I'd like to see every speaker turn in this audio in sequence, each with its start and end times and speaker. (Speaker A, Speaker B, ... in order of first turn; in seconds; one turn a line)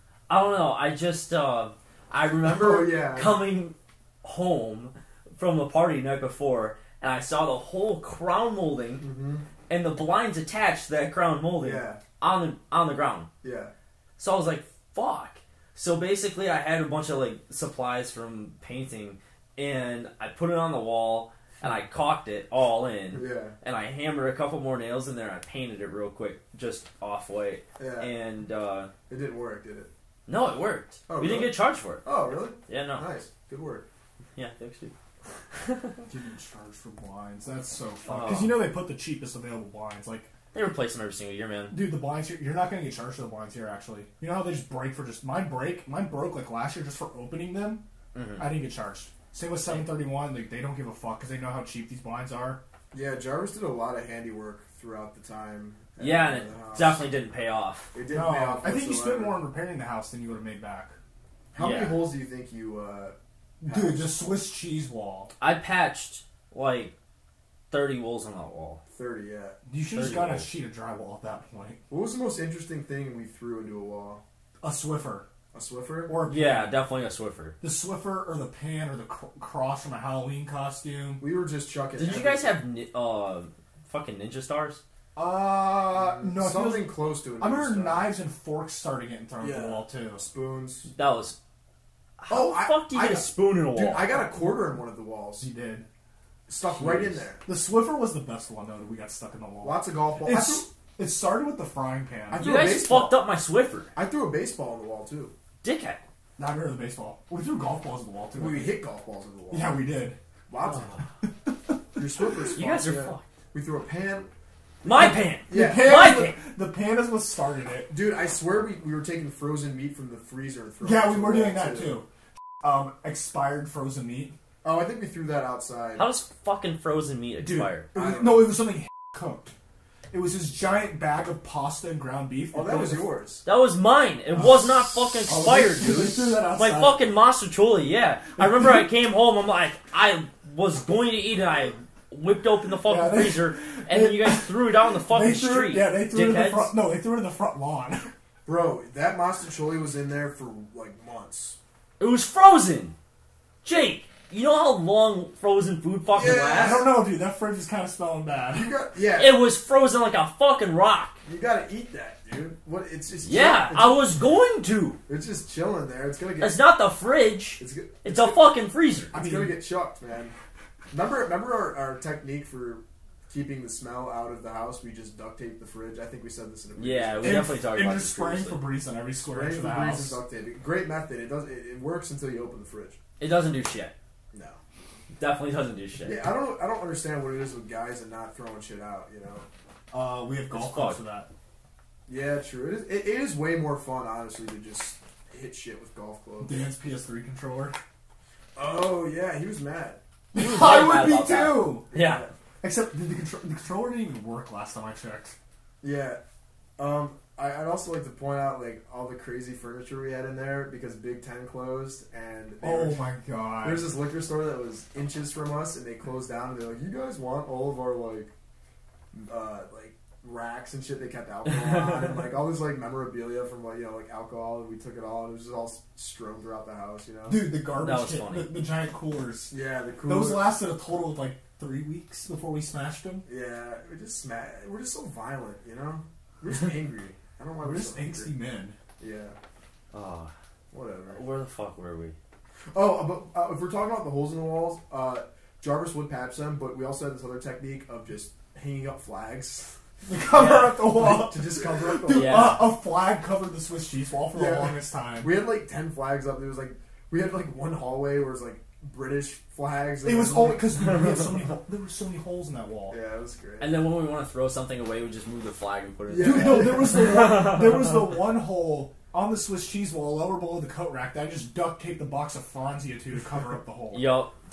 Speaker A: 0.3-9.0
Speaker B: 2.4-3.4
Speaker B: 9.0-9.4
Speaker A: 9.7-13.3
Speaker B: 11.6-12.0
Speaker B: 13.4-13.7
Speaker A: 14.2-28.9
Speaker B: 23.1-23.5
Speaker B: 27.8-28.1
Speaker B: 29.1-29.9
Speaker A: 30.3-32.0
Speaker B: 31.1-33.8
Speaker A: 32.7-33.1
Speaker A: 34.4-34.9
Speaker A: 35.5-36.0
Speaker C: 36.1-40.3
Speaker A: 38.0-38.7
Speaker A: 40.5-41.8
Speaker C: 41.7-47.8
Speaker A: 48.1-48.5
Speaker C: 48.4-52.6
Speaker B: 52.9-57.0
Speaker A: 56.0-57.9
Speaker B: 57.9-59.4
Speaker C: 58.1-61.0
Speaker B: 61.5-64.1
Speaker A: 61.6-62.0
Speaker C: 63.6-65.3
Speaker A: 65.4-66.9
Speaker A: 67.7-68.8
Speaker B: 68.9-69.6
Speaker C: 69.7-71.8
Speaker A: 69.9-70.5
Speaker B: 71.9-74.2
Speaker C: 74.6-75.3
Speaker B: 75.5-76.2
Speaker C: 76.1-76.8
Speaker A: 76.3-77.5
Speaker C: 77.6-81.2
Speaker B: 81.2-82.5
Speaker A: 82.0-84.8
Speaker C: 85.1-90.2
Speaker B: 85.9-88.1
Speaker B: 89.4-90.9
Speaker A: 90.9-91.4
Speaker A: 92.2-94.2
Speaker B: 92.3-95.5
Speaker C: 95.4-95.9
Speaker B: 96.5-97.4
Speaker A: 96.8-97.2
Speaker C: 97.4-102.5
Speaker B: 99.6-100.7
Speaker B: 102.3-103.2
Speaker A: 102.3-103.9
Speaker B: 103.9-105.3
Speaker A: 105.6-106.0
Speaker C: 106.4-108.8
Speaker B: 108.3-109.8
Speaker C: 109.5-110.2
Speaker B: 110.5-111.0
Speaker C: 110.7-112.1
Speaker B: 112.0-114.3
Speaker A: 112.5-113.2
Speaker A: 114.8-116.3
Speaker C: 114.9-117.9
Speaker B: 115.5-116.1
Speaker B: 117.9-122.0
Speaker C: 120.8-122.1
Speaker C: 122.6-124.3
Speaker B: 124.6-126.1
Speaker A: 126.0-127.9
Speaker C: 127.4-129.5
Speaker B: 127.9-128.6
Speaker C: 130.1-133.1
Speaker B: 132.5-133.4
Speaker A: 133.4-146.7
Speaker C: 134.3-137.0
Speaker C: 138.4-138.9
Speaker C: 142.8-148.1
Speaker B: 148.4-151.6
Speaker A: 152.0-152.9
Speaker A: 153.6-156.8
Speaker B: 156.1-157.0
Speaker C: 156.4-158.7
Speaker B: 158.5-159.4
Speaker A: 159.1-161.2
Speaker B: 161.2-164.0
Speaker A: 163.2-165.0
Speaker B: 165.1-166.6
Speaker A: 166.4-169.1
Speaker B: 167.6-168.4
Speaker B: 169.1-170.3
Speaker C: 169.1-169.6
Speaker B: 170.9-177.6
Speaker A: 176.8-178.6
Speaker C: 177.2-180.2
Speaker B: 179.3-183.0
Speaker A: 183.2-183.9
Speaker B: 184.3-184.6
Speaker A: 185.1-186.2
Speaker B: 186.0-189.4
Speaker C: 189.9-191.3
Speaker A: 190.5-191.0
Speaker B: 192.1-196.7
Speaker C: 196.4-197.8
Speaker B: 198.6-200.0
Speaker C: 200.3-201.9
Speaker A: 200.3-202.3
Speaker B: 201.9-202.3
Speaker C: 202.6-205.3
Speaker B: 205.8-206.2
Speaker B: 206.8-213.0
Speaker C: 212.6-213.9
Speaker B: 213.6-218.3
Speaker B: 219.1-227.4
Speaker A: 221.5-222.1
Speaker C: 227.3-233.2
Speaker A: 227.8-228.5
Speaker B: 229.5-230.6
Speaker B: 233.2-238.3
Speaker C: 237.6-238.8
Speaker B: 239.0-239.4
Speaker A: 239.9-240.3
Speaker B: 240.7-241.2
Speaker A: 241.1-242.1
Speaker B: 242.7-249.7
Speaker C: 250.0-255.3
Speaker A: 250.3-250.8
Speaker B: 250.5-252.5
Speaker A: 252.1-252.7
Speaker B: 254.3-261.1
Speaker C: 260.0-263.0
Speaker B: 262.9-263.8
Speaker A: 263.6-267.9
Speaker B: 266.1-267.4
Speaker C: 266.2-274.2
Speaker A: 273.9-274.3